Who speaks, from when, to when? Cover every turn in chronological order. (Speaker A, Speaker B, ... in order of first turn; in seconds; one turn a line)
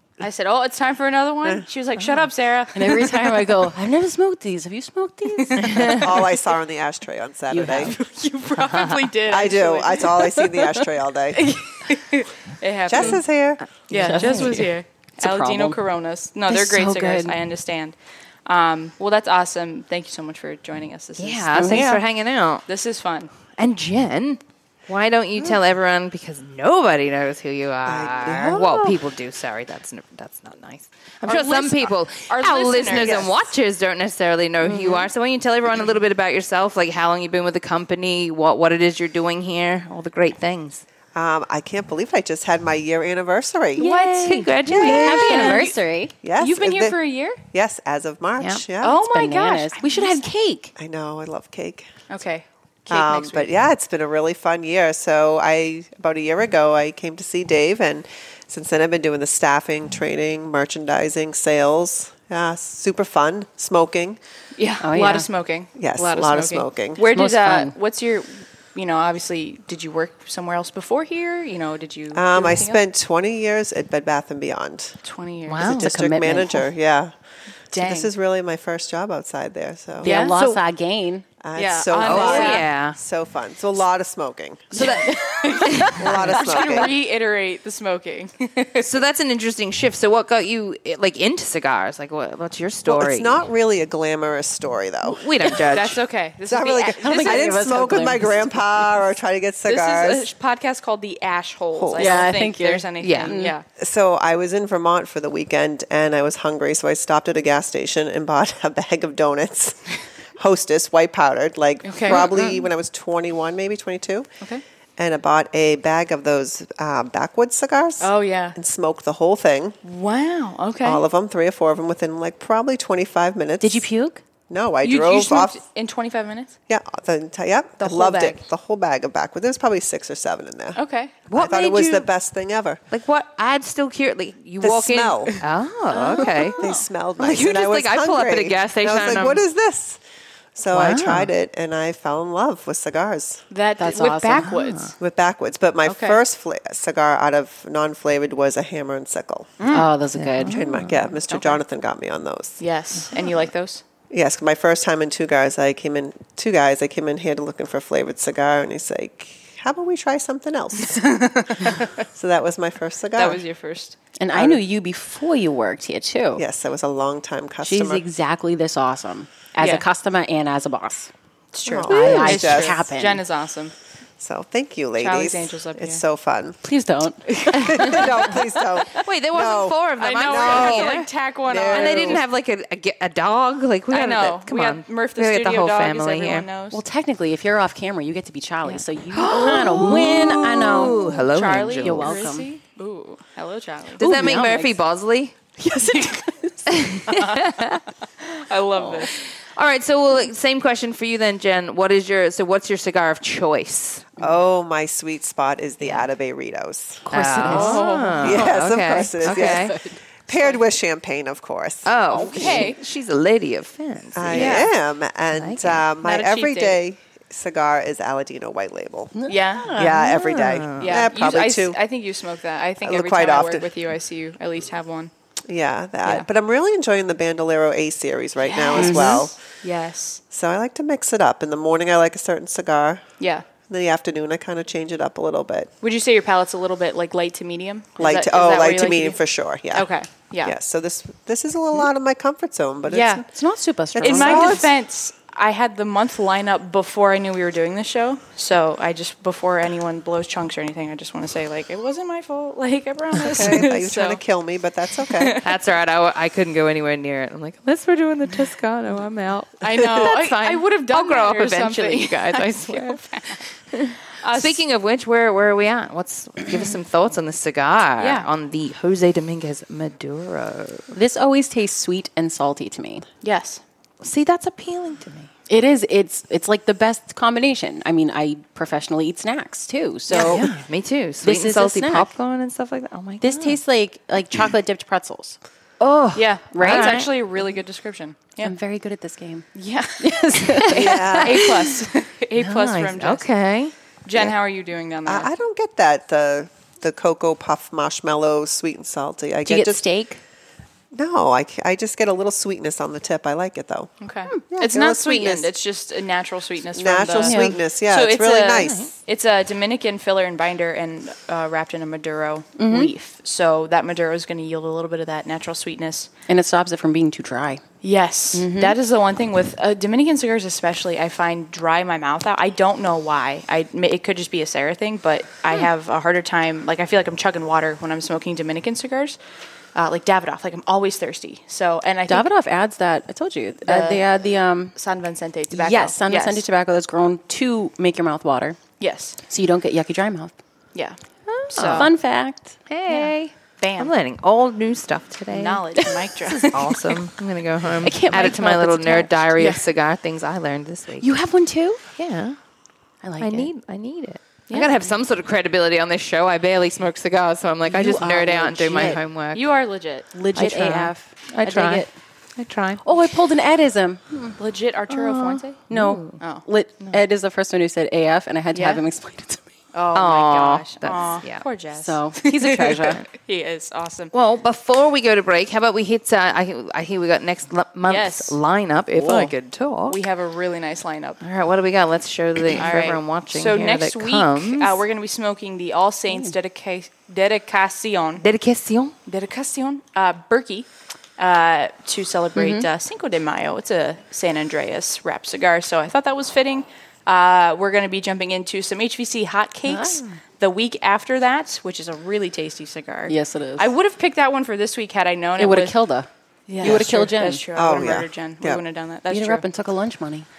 Speaker A: 0.2-3.5
Speaker B: 2.7-6.0
Speaker A: 5.4-6.0
Speaker C: 6.0-7.9
Speaker B: 7.5-8.0
Speaker A: 7.8-10.4
Speaker D: 8.6-9.1
Speaker C: 9.3-11.5
Speaker A: 11.3-13.2
Speaker C: 12.9-13.6
Speaker A: 13.9-22.0
Speaker B: 13.9-15.8
Speaker D: 14.0-14.6
Speaker B: 16.5-17.4
Speaker D: 21.2-22.6
Speaker B: 21.6-21.9
Speaker A: 22.7-23.3
Speaker D: 23.6-40.8
Speaker C: 27.9-29.0
Speaker A: 31.2-33.3
Speaker C: 33.0-33.3
Speaker C: 41.1-43.9
Speaker B: 43.8-46.1
Speaker A: 43.8-45.8
Speaker D: 43.8-45.7
Speaker C: 44.7-45.2
Speaker C: 46.2-47.0
Speaker A: 46.4-47.4
Speaker C: 47.5-49.0
Speaker A: 48.8-50.3
Speaker B: 49.1-50.7
Speaker C: 50.8-51.9
Speaker A: 52.1-53.5
Speaker C: 52.9-64.2
Speaker A: 64.6-72.8
Speaker B: 64.8-65.3
Speaker C: 65.8-67.0
Speaker B: 67.1-67.8
Speaker C: 72.1-75.0
Speaker A: 75.0-75.7
Speaker D: 75.5-75.9
Speaker C: 75.6-77.1
Speaker B: 75.7-76.7
Speaker A: 77.7-78.1
Speaker C: 77.7-80.1
Speaker B: 80.0-81.3
Speaker A: 80.0-80.4
Speaker D: 80.3-80.6
Speaker C: 81.4-85.0
Speaker A: 81.5-82.7
Speaker D: 82.0-83.0
Speaker A: 84.7-89.0
Speaker B: 84.8-86.4
Speaker C: 86.0-86.9
Speaker D: 88.8-93.4
Speaker C: 92.8-95.3
Speaker D: 95.0-96.0
Speaker A: 95.7-97.7
Speaker C: 96.5-100.3
Speaker B: 97.0-98.6
Speaker A: 99.7-103.7
Speaker C: 101.8-102.2
Speaker B: 102.0-103.5
Speaker D: 103.0-103.4
Speaker C: 103.8-109.8
Speaker C: 110.4-114.3
Speaker A: 111.8-112.4
Speaker C: 115.0-119.8
Speaker A: 118.0-118.6
Speaker A: 119.8-121.0
Speaker C: 120.8-123.9
Speaker B: 123.6-124.2
Speaker C: 124.5-125.6
Speaker A: 124.8-126.5
Speaker C: 126.7-132.8
Speaker A: 127.8-128.4
Speaker A: 130.8-131.3
Speaker D: 131.3-132.1
Speaker D: 132.9-136.6
Speaker C: 134.6-135.3
Speaker A: 136.0-136.8
Speaker C: 136.6-140.0
Speaker D: 137.2-139.4
Speaker C: 140.6-143.4
Speaker D: 140.7-141.3
Speaker A: 143.5-144.9
Speaker B: 143.8-144.5
Speaker D: 144.5-144.9
Speaker C: 145.0-149.6
Speaker A: 145.8-146.2
Speaker B: 149.7-150.5
Speaker D: 150.4-150.9
Speaker C: 150.5-152.6
Speaker A: 151.3-151.6
Speaker A: 152.6-153.8
Speaker C: 154.1-161.1
Speaker A: 160.8-161.9
Speaker C: 162.2-163.4
Speaker A: 163.2-164.6
Speaker B: 164.2-166.4
Speaker C: 166.4-168.0
Speaker B: 167.6-171.1
Speaker A: 169.6-169.8
Speaker A: 171.5-173.7
Speaker C: 171.7-172.8
Speaker B: 171.9-173.2
Speaker C: 174.2-176.6
Speaker A: 175.0-176.0
Speaker B: 176.6-178.3
Speaker C: 177.6-182.2
Speaker D: 179.0-181.1
Speaker A: 180.0-182.2
Speaker D: 181.7-186.5
Speaker A: 183.9-186.8
Speaker B: 186.7-191.2
Speaker D: 189.1-192.3
Speaker A: 191.3-194.1
Speaker B: 191.8-192.5
Speaker B: 194.0-194.8
Speaker D: 194.0-195.3
Speaker B: 195.6-197.2
Speaker D: 196.7-197.8
Speaker A: 197.2-197.5
Speaker A: 198.2-199.1
Speaker D: 199.6-204.1
Speaker C: 204.2-207.0
Speaker B: 207.1-208.3
Speaker D: 207.1-209.7
Speaker A: 207.5-208.5
Speaker C: 208.2-209.8
Speaker B: 209.2-210.0
Speaker C: 210.3-212.6
Speaker D: 211.8-214.7
Speaker B: 212.1-212.6
Speaker A: 212.3-212.8
Speaker C: 214.2-219.2
Speaker A: 214.3-214.7
Speaker D: 215.3-215.8
Speaker A: 216.0-216.8
Speaker B: 219.2-219.7
Speaker A: 219.3-220.2
Speaker C: 219.7-221.8
Speaker D: 219.9-221.1
Speaker A: 220.8-225.1
Speaker C: 222.8-223.7
Speaker C: 225.5-229.4
Speaker A: 228.4-230.2
Speaker B: 228.8-229.2
Speaker C: 230.3-233.1
Speaker A: 233.2-233.4
Speaker C: 233.7-235.7
Speaker A: 235.8-239.2
Speaker C: 238.0-239.9
Speaker A: 239.7-240.5
Speaker C: 240.4-243.3
Speaker A: 242.9-243.2
Speaker B: 243.3-244.7
Speaker C: 243.9-244.7
Speaker A: 244.0-254.2
Speaker C: 253.2-255.4
Speaker A: 255.1-255.5
Speaker D: 255.4-263.0
Speaker A: 259.6-263.4
Speaker D: 263.7-270.9
Speaker A: 264.2-264.6
Speaker A: 268.0-268.3
Speaker B: 270.9-273.1
Speaker A: 273.2-273.6
Speaker D: 274.0-275.3
Speaker B: 275.5-280.5
Speaker A: 280.1-280.5
Speaker D: 280.1-283.6
Speaker B: 281.2-282.1
Speaker B: 283.2-285.4
Speaker D: 285.8-287.1
Speaker A: 286.1-288.5
Speaker B: 286.5-287.0
Speaker B: 288.4-290.8
Speaker A: 289.6-293.3
Speaker D: 290.7-291.8
Speaker C: 290.7-291.5
Speaker D: 292.4-293.7
Speaker A: 294.1-295.3
Speaker C: 295.1-299.9
Speaker B: 299.5-300.2
Speaker C: 300.9-303.9
Speaker A: 304.0-316.1
Speaker C: 304.5-305.5
Speaker C: 306.7-308.9
Speaker B: 307.2-307.6
Speaker D: 308.6-308.9
Speaker B: 312.6-312.9
Speaker B: 316.3-317.6
Speaker A: 317.8-329.2
Speaker B: 318.3-318.8
Speaker A: 329.8-332.3
Speaker B: 332.1-334.8
Speaker A: 333.6-334.0
Speaker A: 334.8-336.4
Speaker B: 335.5-338.6
Speaker A: 338.8-339.2
Speaker B: 339.3-340.3
Speaker D: 341.3-341.9
Speaker A: 341.5-341.9
Speaker B: 341.7-342.6
Speaker D: 342.7-351.1
Speaker A: 342.9-343.9
Speaker A: 345.3-346.9
Speaker B: 347.8-349.1
Speaker A: 348.2-348.4
Speaker A: 349.4-349.6
Speaker B: 351.0-351.8
Speaker D: 352.0-352.4
Speaker B: 353.0-353.5
Speaker D: 353.2-359.5
Speaker A: 354.5-354.9
Speaker B: 357.7-359.0
Speaker A: 359.3-360.1
Speaker B: 360.1-361.9
Speaker D: 360.4-361.9
Speaker D: 362.4-362.8
Speaker B: 362.8-364.4
Speaker A: 364.4-365.6
Speaker D: 364.9-366.2
Speaker B: 365.7-369.4
Speaker A: 366.2-366.5
Speaker A: 368.5-368.8
Speaker A: 369.7-374.1
Speaker D: 369.9-371.4
Speaker B: 371.8-373.0
Speaker D: 374.1-380.0
Speaker A: 377.9-378.4
Speaker B: 379.0-379.3
Speaker A: 379.9-381.2
Speaker D: 381.2-384.9
Speaker A: 382.5-388.2
Speaker D: 388.2-388.9
Speaker A: 389.1-390.7
Speaker A: 391.2-405.8
Speaker B: 392.4-392.7
Speaker B: 399.7-400.2
Speaker B: 403.1-403.7
Speaker B: 405.4-406.1
Speaker A: 406.5-409.4
Speaker B: 406.6-407.4
Speaker C: 407.6-408.6
Speaker B: 409.1-410.3